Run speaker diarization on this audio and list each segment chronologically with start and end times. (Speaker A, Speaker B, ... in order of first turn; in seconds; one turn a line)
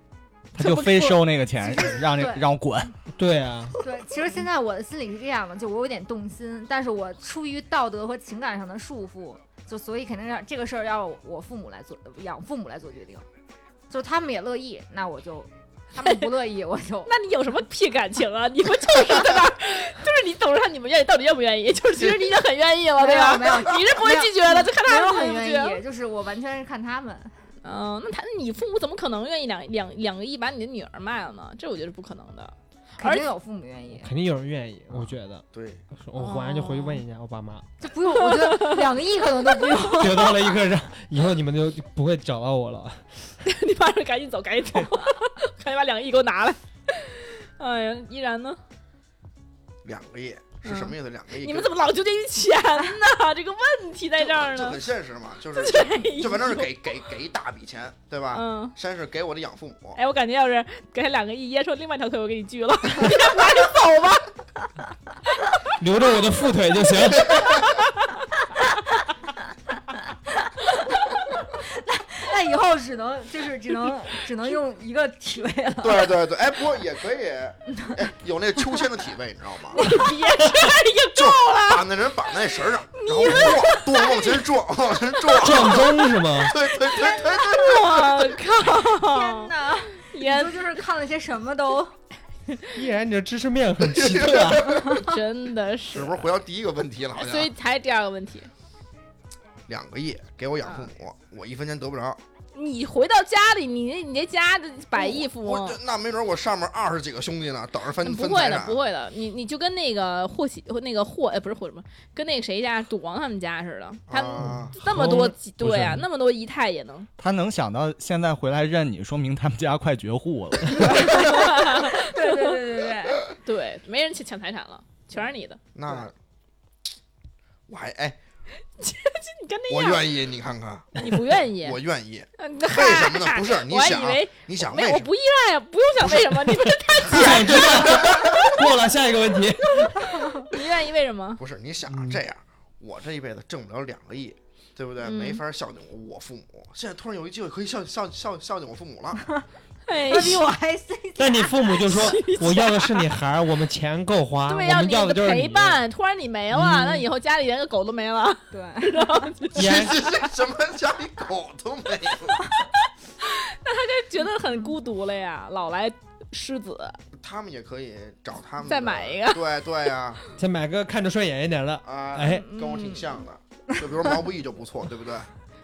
Speaker A: 0.5-2.9
Speaker B: 0.6-2.4
Speaker C: 3.2-3.8
Speaker B: 3.8-13.3
Speaker B: 13.9-17.1
Speaker D: 16.0-16.3
Speaker D: 17.1-25.8
Speaker B: 23.0-27.4
Speaker D: 27.6-33.3
Speaker B: 33.0-34.1
Speaker C: 34.0-37.7
Speaker E: 35.0-35.8
Speaker D: 36.2-37.0
Speaker B: 37.8-40.5
Speaker D: 38.1-38.9
Speaker C: 39.9-43.3
Speaker D: 43.4-48.6
Speaker E: 49.8-51.7
Speaker D: 50.6-54.8
Speaker E: 54.2-60.0
Speaker D: 55.5-56.9
Speaker D: 58.3-58.8
Speaker D: 60.0-64.3
Speaker C: 65.8-67.5
Speaker E: 67.3-67.8
Speaker B: 70.5-76.1
Speaker E: 75.8-79.8
Speaker B: 77.7-78.0
Speaker D: 79.7-82.3
Speaker E: 81.2-88.3
Speaker D: 82.9-84.5
Speaker C: 85.4-86.6
Speaker D: 86.7-90.8
Speaker B: 88.9-92.0
Speaker C: 92.7-95.0
Speaker E: 93.8-95.0
Speaker D: 94.9-96.3
Speaker E: 95.9-97.5
Speaker D: 97.2-98.5
Speaker E: 99.7-102.2
Speaker D: 100.6-100.9
Speaker D: 102.5-105.8
Speaker E: 104.9-108.8
Speaker D: 108.0-117.1
Speaker E: 114.1-114.8
Speaker C: 114.4-116.1
Speaker A: 117.2-121.4
Speaker B: 120.8-123.2
Speaker D: 120.8-122.6
Speaker D: 123.3-125.6
Speaker E: 125.8-126.1
Speaker E: 127.7-128.2
Speaker D: 128.8-130.1
Speaker E: 129.7-135.1
Speaker D: 131.0-131.8
Speaker D: 132.4-138.5
Speaker C: 137.1-140.4
Speaker E: 137.1-138.5
Speaker D: 140.5-141.4
Speaker E: 141.4-149.2
Speaker C: 141.9-142.2
Speaker D: 145.0-145.4
Speaker D: 149.9-150.5
Speaker B: 150.0-152.2
Speaker C: 151.2-155.8
Speaker D: 151.8-153.1
Speaker D: 154.5-160.3
Speaker C: 156.5-157.1
Speaker B: 158.5-159.3
Speaker E: 159.6-162.5
Speaker C: 159.6-160.0
Speaker D: 163.2-167.0
Speaker E: 167.2-170.2
Speaker D: 168.7-169.9
Speaker C: 170.4-172.5
Speaker E: 171.8-175.3
Speaker D: 172.2-173.2